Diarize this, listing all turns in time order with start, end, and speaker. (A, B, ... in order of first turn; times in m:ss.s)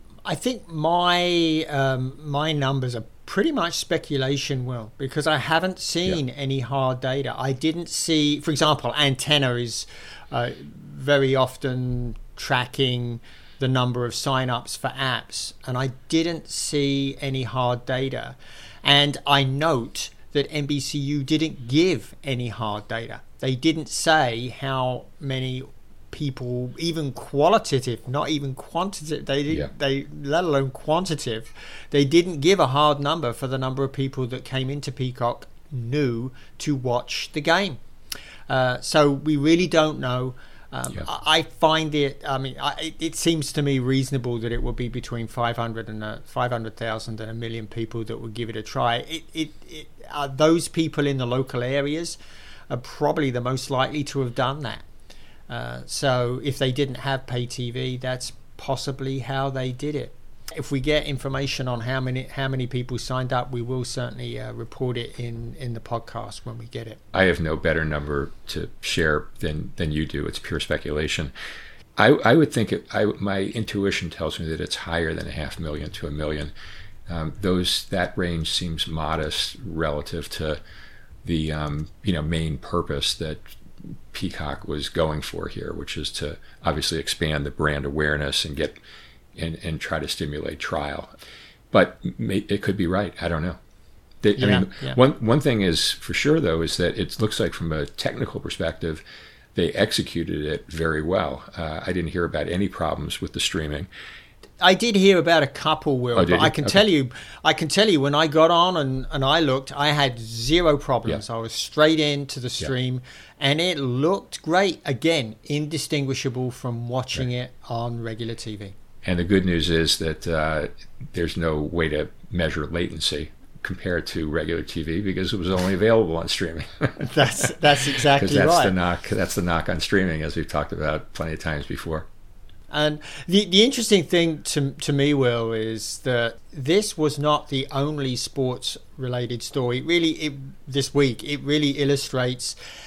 0:00.2-0:37.8 A
0:38.5-0:52.2 A
0:52.7-0:54.8 A
0:55.5-1:07.0 A
1:07.1-1:11.3 B
1:12.0-1:16.5 B
1:17.1-1:20.6 B
1:21.2-1:28.8 B
1:29.3-1:31.1 B
1:31.7-1:33.6 B
1:34.2-1:39.0 B
1:34.4-1:35.0 A
1:39.5-1:43.9 B
1:44.6-1:58.7 A
1:46.2-1:46.8 B
1:59.0-2:07.0 B
2:07.0-2:08.7 A
2:08.0-2:12.1 B
2:12.7-2:22.5 A